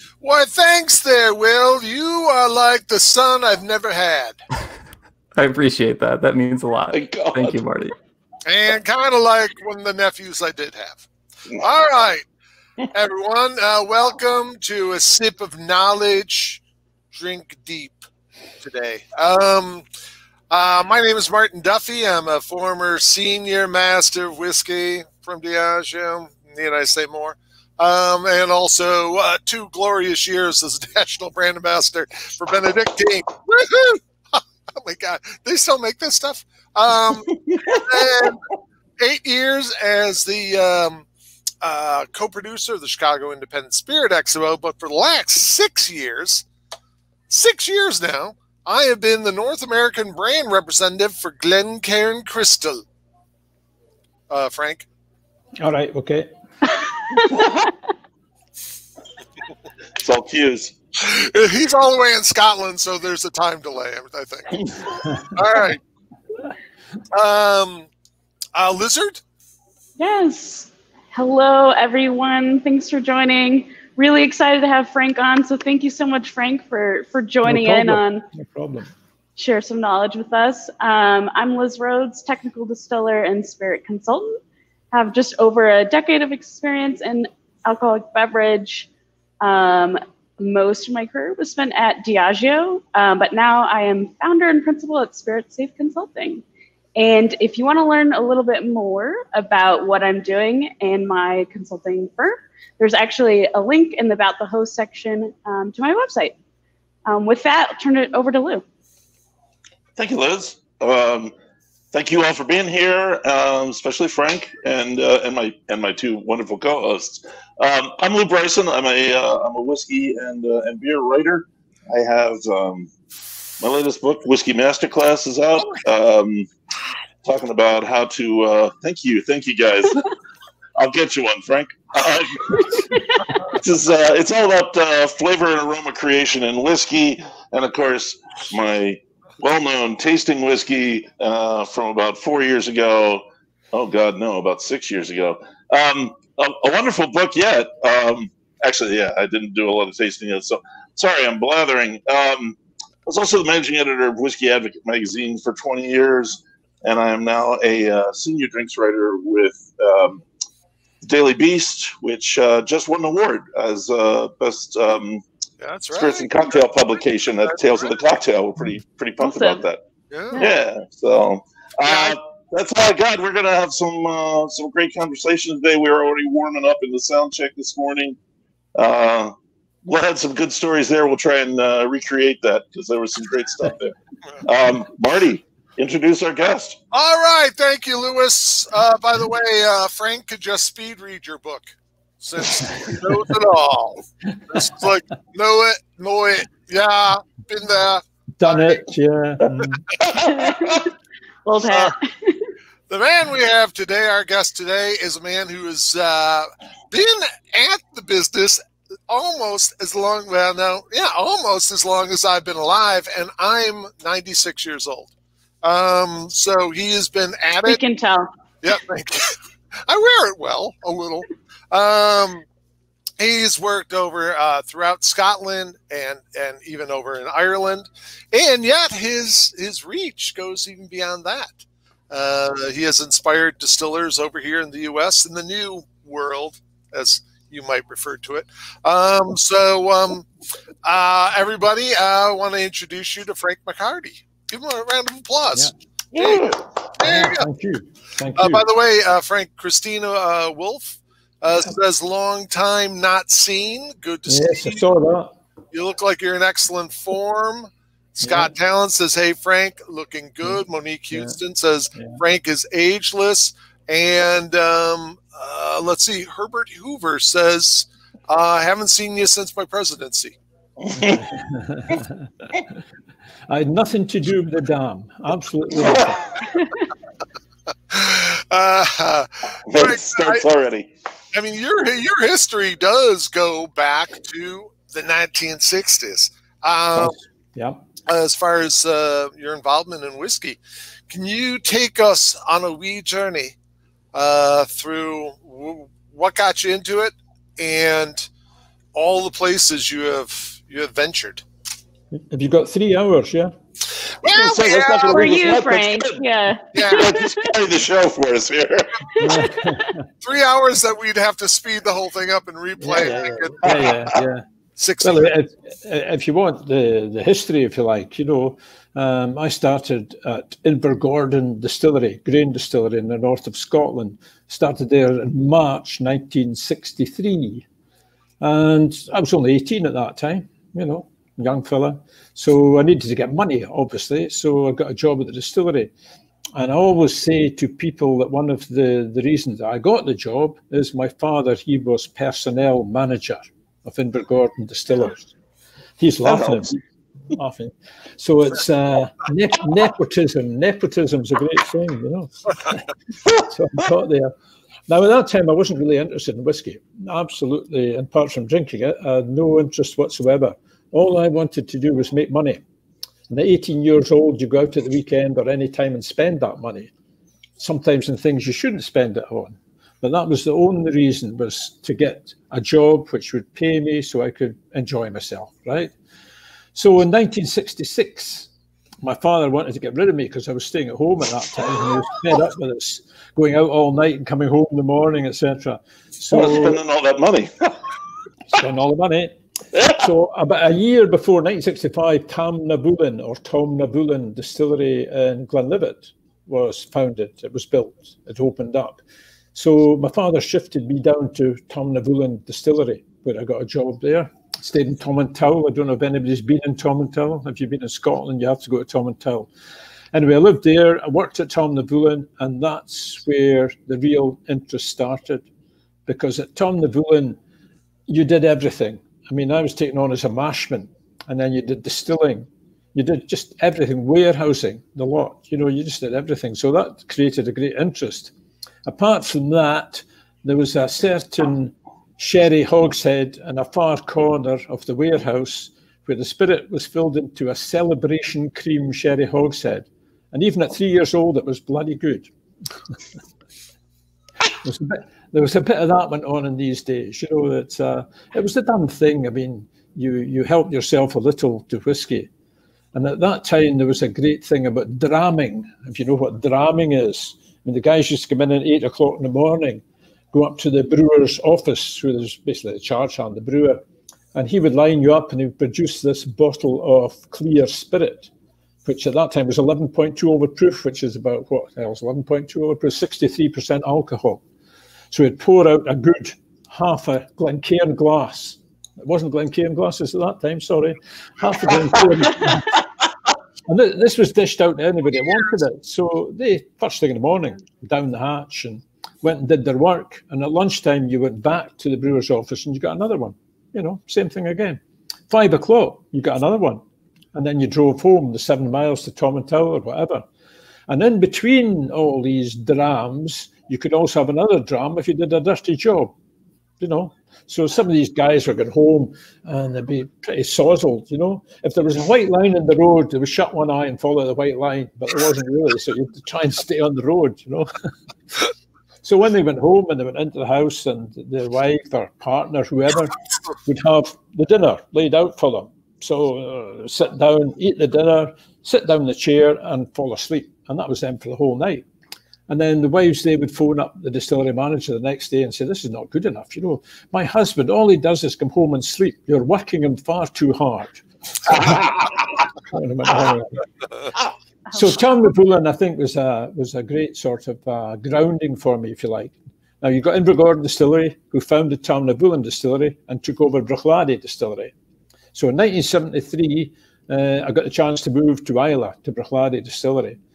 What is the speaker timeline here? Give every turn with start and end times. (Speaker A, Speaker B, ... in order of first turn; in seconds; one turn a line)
Speaker A: 0.2-4.4
Speaker B: 5.3-7.9
Speaker C: 6.9-7.6
Speaker A: 8.4-11.0
Speaker A: 11.6-12.2
Speaker A: 12.9-16.6
Speaker A: 17.1-18.0
Speaker A: 18.6-19.8
Speaker A: 20.5-38.4
Speaker C: 37.3-38.3
Speaker A: 39.0-41.0
Speaker A: 41.6-46.4
Speaker A: 47.3-52.8
Speaker A: 54.3-54.9
Speaker D: 55.6-56.3
Speaker E: 56.8-57.7
Speaker C: 57.3-57.7
Speaker C: 60.0-60.7
Speaker A: 61.0-65.8
Speaker A: 67.1-67.9
Speaker A: 68.5-69.2
Speaker E: 70.0-78.2
Speaker D: 77.4-78.9
Speaker E: 79.3-84.4
Speaker E: 84.9-88.9
Speaker E: 89.4-96.4
Speaker E: 97.0-106.3
Speaker E: 107.0-108.6
Speaker C: 110.0-111.3
Speaker C: 111.9-122.9
Speaker C: 123.6-126.5
Speaker C: 127.2-130.1
Speaker C: 130.8-160.2
Speaker E: 132.8-133.2
Speaker C: 161.0-165.2
Speaker A: 165.6-166.7
Speaker C: 165.9-169.8
Speaker E: 169.2-169.6
Speaker A: 170.1-170.4
Speaker E: 170.3-170.6
Speaker C: 170.4-178.2
Speaker A: 171.8-172.2
Speaker C: 178.7-186.8
Speaker A: 186.9-198.8
Speaker D: 192.6-193.1
Speaker D: 198.4-199.8
Speaker C: 200.0-200.8
Speaker E: 200.2-200.9
Speaker E: 201.4-202.4
Speaker A: 201.7-201.9
Speaker A: 202.9-215.1
Speaker A: 215.6-217.8
Speaker E: 217.7-218.3
Speaker A: 218.6-222.4
Speaker A: 223.2-240.2
Speaker A: 240.8-247.4
Speaker C: 246.1-246.7
Speaker D: 247.0-248.6
Speaker A: 248.3-254.8
Speaker D: 254.3-255.3
Speaker A: 255.7-270.3
Speaker D: 258.2-258.5
Speaker D: 261.9-262.2
Speaker C: 270.8-271.2
Speaker D: 270.9-272.3
Speaker D: 273.5-276.2
Speaker C: 275.7-276.1
Speaker E: 276.5-276.8
Speaker A: 277.9-280.4
Speaker C: 279.7-280.9
Speaker A: 281.3-287.1
Speaker D: 286.9-287.8
Speaker A: 288.1-290.6
Speaker A: 291.1-293.5
Speaker A: 294.1-298.3
Speaker A: 298.9-301.4
Speaker D: 302.3-303.5
Speaker A: 304.2-305.5
Speaker C: 304.3-306.2
Speaker E: 305.1-307.5
Speaker A: 306.7-307.1
Speaker C: 306.9-309.0
Speaker E: 309.1-309.9
Speaker D: 309.2-310.0
Speaker A: 310.2-314.1
Speaker D: 312.8-314.4
Speaker A: 314.8-315.3
Speaker D: 315.0-327.6
Speaker D: 328.4-335.9
Speaker D: 336.6-345.3
Speaker D: 346.0-346.8
Speaker C: 346.2-346.8
Speaker D: 347.3-354.3
Speaker D: 354.9-362.6
Speaker D: 363.3-366.9
Speaker D: 367.6-375.9
Speaker D: 376.7-378.5
Speaker D: 379.0-386.8
Speaker C: 386.3-387.8
Speaker D: 388.5-389.4
Speaker D: 389.9-399.0
Speaker D: 399.5-409.5
Speaker D: 410.1-415.4
Speaker D: 416.1-417.4
Speaker D: 418.1-428.3
Speaker D: 428.9-442.3
Speaker D: 444.6-452.3
Speaker D: 452.9-463.8
Speaker D: 464.3-468.3
Speaker D: 468.8-474.4
Speaker D: 475.1-482.8
Speaker D: 483.6-496.8
Speaker D: 497.3-500.2
Speaker D: 500.9-506.1
Speaker D: 506.8-517.7
Speaker D: 519.0-531.9
Speaker D: 532.5-543.6
Speaker D: 544.7-554.7
Speaker D: 555.3-560.2